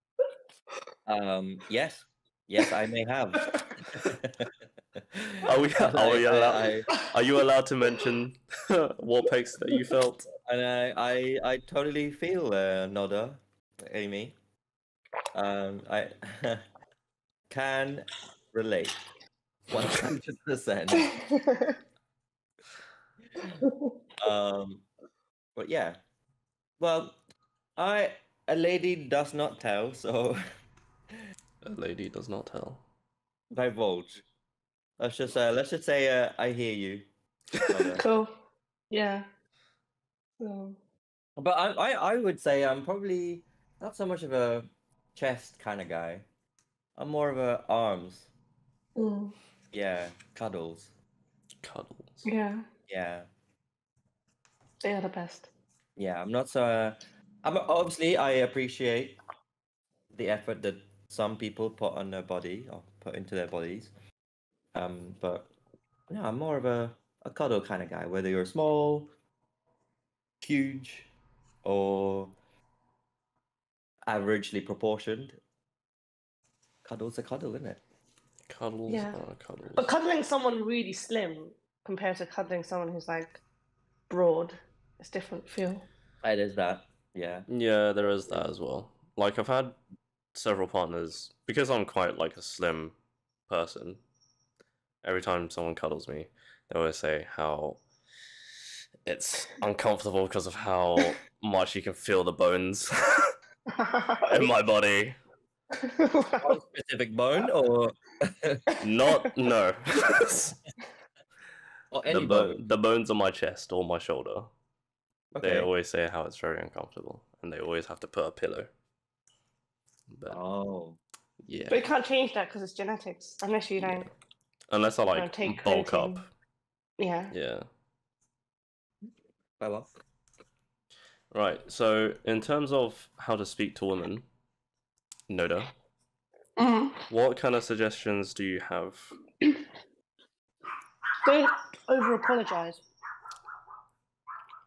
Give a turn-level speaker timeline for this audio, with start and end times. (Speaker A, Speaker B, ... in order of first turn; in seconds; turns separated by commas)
Speaker A: 1.1-6.9, Speaker B: 5.4-10.3, Speaker A: 10.4-14.3, Speaker A: 15.3-16.6, Speaker A: 17.5-19.0, Speaker A: 19.7-21.1, Speaker C: 20.9-21.8, Speaker C: 23.4-23.9, Speaker A: 24.2-24.9, Speaker A: 25.6-26.0, Speaker A: 26.8-27.2, Speaker A: 27.8-30.4, Speaker B: 31.6-32.8, Speaker A: 33.5-34.2, Speaker A: 35.0-37.1, Speaker B: 37.6-37.9, Speaker A: 37.7-38.0, Speaker C: 37.9-38.4, Speaker C: 38.9-39.3, Speaker C: 40.4-40.8, Speaker A: 41.4-46.2, Speaker A: 47.0-48.3, Speaker C: 49.0-49.3, Speaker A: 49.7-50.9, Speaker B: 51.6-52.2, Speaker C: 52.2-52.6, Speaker A: 52.9-53.3, Speaker C: 54.8-55.5, Speaker A: 56.0-59.2, Speaker A: 60.1-63.9, Speaker A: 64.7-65.5, Speaker A: 66.1-69.1, Speaker A: 70.4-71.1, Speaker A: 71.6-72.3, Speaker A: 74.1-75.4, Speaker A: 76.8-77.8, Speaker B: 78.5-79.9, Speaker C: 78.9-79.2, Speaker C: 79.8-83.4, Speaker C: 84.1-85.8, Speaker A: 86.2-87.5, Speaker B: 87.5-89.8, Speaker B: 90.3-93.0, Speaker B: 93.5-94.0, Speaker B: 95.0-97.8, Speaker B: 99.0-103.3, Speaker C: 103.7-104.5, Speaker B: 104.3-105.2, Speaker C: 105.7-106.6, Speaker A: 106.4-108.6, Speaker C: 108.7-109.2, Speaker B: 108.8-110.6, Speaker A: 111.9-112.6, Speaker B: 112.1-114.5, Speaker A: 115.3-115.7, Speaker B: 115.4-118.7, Speaker B: 120.1-120.4, Speaker A: 120.3-121.0, Speaker B: 121.4-121.8, Speaker C: 121.7-124.1, Speaker B: 124.7-126.3, Speaker C: 125.1-126.2, Speaker C: 127.0-127.3, Speaker B: 127.3-127.7, Speaker A: 129.6-129.9, Speaker B: 131.3-134.2, Speaker B: 135.3-135.7, Speaker C: 136.6-137.1, Speaker B: 137.1-139.2, Speaker C: 141.2-142.8